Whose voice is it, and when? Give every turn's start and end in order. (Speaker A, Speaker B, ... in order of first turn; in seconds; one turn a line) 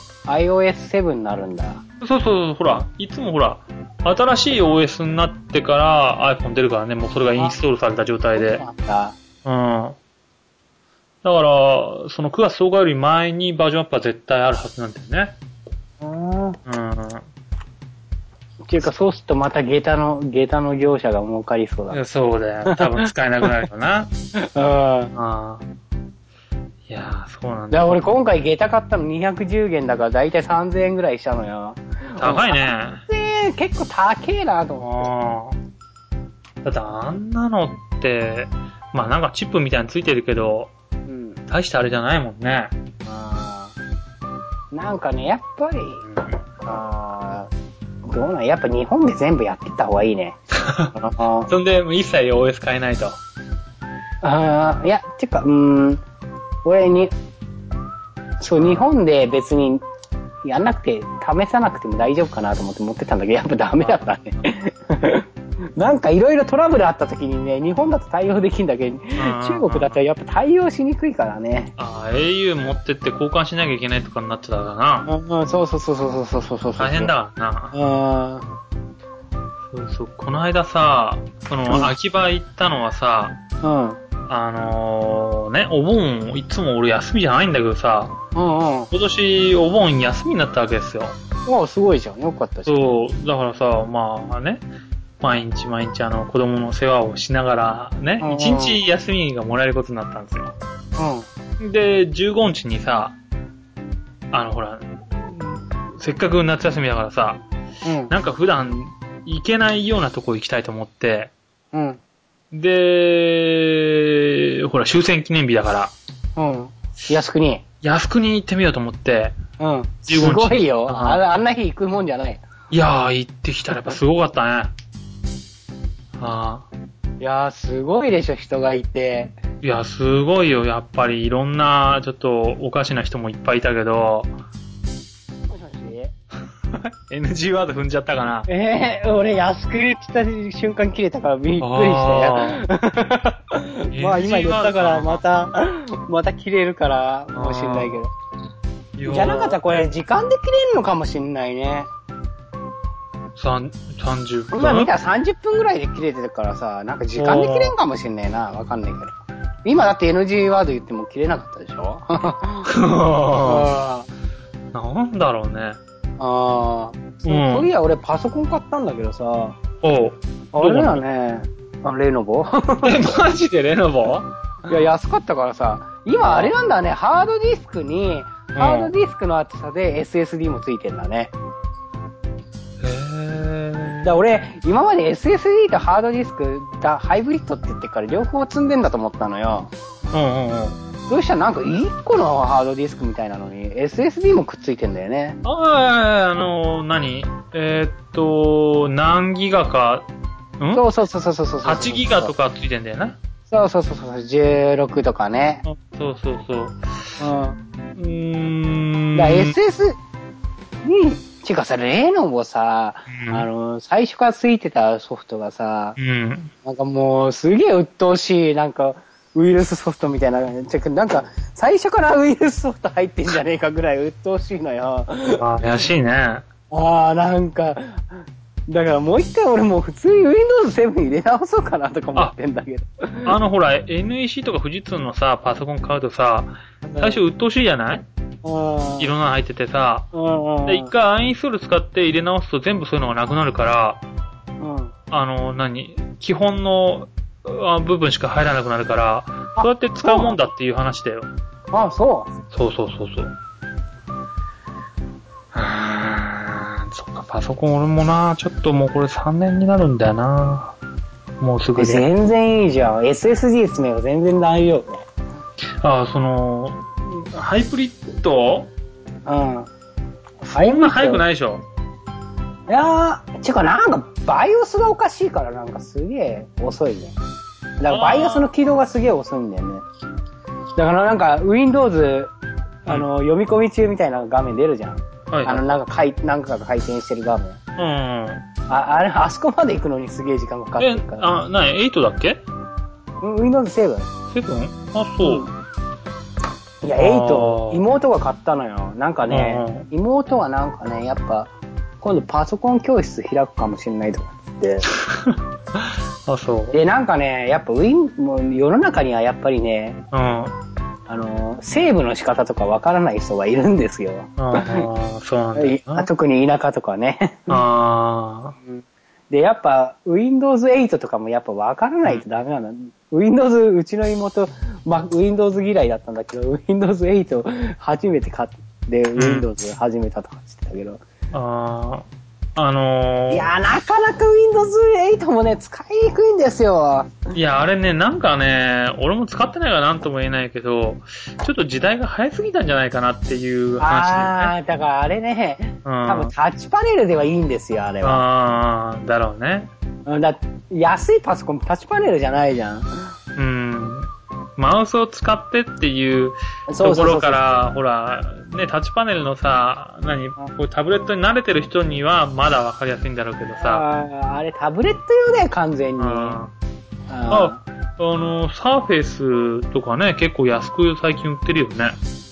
Speaker A: 0.3-1.8
Speaker B: 2.0-8.6
Speaker A: 8.4-9.2
Speaker B: 9.4-10.0
Speaker B: 11.2-15.4
Speaker A: 16.0-16.6
Speaker B: 16.7-17.3
Speaker A: 18.6-22.0
Speaker B: 21.9-24.1
Speaker A: 22.7-23.6
Speaker A: 24.4-25.1
Speaker B: 25.1-25.6
Speaker B: 26.9-28.0
Speaker A: 27.7-35.1
Speaker B: 32.2-33.0
Speaker B: 34.8-35.6
Speaker B: 36.6-40.7
Speaker A: 41.1-41.4
Speaker B: 41.5-42.7
Speaker A: 43.0-43.7
Speaker A: 44.7-46.0
Speaker B: 46.0-46.4
Speaker A: 46.6-47.5
Speaker A: 48.0-50.4
Speaker B: 50.6-50.9
Speaker A: 51.0-51.5
Speaker B: 51.5-53.2
Speaker A: 54.2-56.0
Speaker A: 56.6-57.1
Speaker A: 58.4-59.8
Speaker B: 58.6-58.9
Speaker A: 60.5-71.7
Speaker B: 63.8-64.2
Speaker B: 69.2-70.0
Speaker B: 71.8-75.1
Speaker A: 75.1-77.1
Speaker B: 76.8-77.8
Speaker A: 77.7-78.5
Speaker B: 79.7-83.4
Speaker A: 81.7-81.9
Speaker A: 83.6-84.0
Speaker B: 84.3-88.2
Speaker A: 88.3-88.9
Speaker B: 88.9-91.2
Speaker A: 91.5-92.8
Speaker B: 92.7-94.6
Speaker B: 95.2-100.5
Speaker A: 98.2-98.8
Speaker A: 101.0-101.3
Speaker B: 101.6-103.2
Speaker B: 104.3-107.4
Speaker A: 107.8-108.1
Speaker B: 108.1-111.3
Speaker A: 111.7-112.0
Speaker B: 112.5-115.9
Speaker A: 116.4-117.6
Speaker B: 117.8-119.4
Speaker A: 119.6-122.4
Speaker B: 120.1-121.2
Speaker B: 122.7-124.7
Speaker B: 126.2-126.7
Speaker A: 127.2-129.4
Speaker B: 129.6-134.3
Speaker A: 135.5-136.1
Speaker B: 136.7-138.5
Speaker A: 138.5-148.1
Speaker B: 141.6-142.6
Speaker B: 143.9-145.2
Speaker B: 147.3-148.0
Speaker B: 149.0-149.6
Speaker A: 149.1-151.9
Speaker B: 153.4-154.9
Speaker A: 154.5-162.7
Speaker B: 157.2-157.8
Speaker B: 162.7-163.7
Speaker A: 163.4-164.1
Speaker B: 164.7-165.8
Speaker A: 166.2-169.6
Speaker B: 167.2-167.7
Speaker B: 169.8-171.0
Speaker A: 170.5-173.0
Speaker B: 172.8-174.3
Speaker A: 174.7-181.3
Speaker B: 176.2-176.5
Speaker B: 178.5-178.9
Speaker B: 182.8-184.1
Speaker A: 184.0-189.7
Speaker B: 190.1-190.8
Speaker A: 191.1-195.4
Speaker B: 195.4-200.1
Speaker B: 200.6-200.8
Speaker A: 200.7-202.3
Speaker B: 201.6-203.2
Speaker A: 203.5-205.6
Speaker B: 205.7-207.2
Speaker A: 207.2-207.6
Speaker B: 208.0-209.6
Speaker A: 209.2-210.0
Speaker A: 210.8-216.0
Speaker B: 213.1-213.5
Speaker B: 216.0-216.5
Speaker A: 216.6-225.4
Speaker B: 225.4-226.4
Speaker A: 226.7-228.0
Speaker A: 228.7-233.3
Speaker B: 233.2-238.1
Speaker A: 236.8-237.2
Speaker A: 238.4-239.1
Speaker B: 239.0-240.1
Speaker A: 240.1-240.9
Speaker B: 240.7-244.0
Speaker A: 244.6-244.9
Speaker B: 245.1-251.3
Speaker A: 249.6-250.4
Speaker A: 251.7-252.3
Speaker B: 252.5-253.3
Speaker B: 255.5-260.7
Speaker B: 261.4-262.1
Speaker A: 261.8-265.0
Speaker B: 265.8-268.7
Speaker A: 269.3-269.7
Speaker B: 270.4-271.6
Speaker A: 270.5-271.2
Speaker A: 272.7-277.1
Speaker A: 277.8-279.8
Speaker B: 277.9-278.5
Speaker A: 280.8-282.3
Speaker A: 282.9-287.6
Speaker B: 285.3-285.6
Speaker B: 287.8-288.4
Speaker A: 288.7-291.3
Speaker B: 290.8-292.4
Speaker A: 293.2-294.1
Speaker B: 294.3-295.5
Speaker A: 295.2-295.5
Speaker A: 296.8-301.5
Speaker B: 297.0-297.8
Speaker B: 299.3-299.9
Speaker A: 302.0-304.9
Speaker B: 304.9-306.8
Speaker A: 306.7-310.0
Speaker B: 310.1-310.6
Speaker A: 311.1-314.9
Speaker B: 314.4-316.1
Speaker A: 315.6-317.6
Speaker B: 317.5-318.6
Speaker A: 318.6-331.0
Speaker B: 329.2-329.5
Speaker B: 331.3-333.5
Speaker A: 333.3-337.3
Speaker B: 337.3-344.5
Speaker A: 343.8-348.2
Speaker B: 345.9-346.3
Speaker B: 348.0-349.7
Speaker A: 350.1-352.9
Speaker B: 353.4-363.8
Speaker A: 356.7-357.5
Speaker A: 363.6-366.4
Speaker B: 366.0-366.5
Speaker A: 367.1-367.6
Speaker B: 367.3-372.0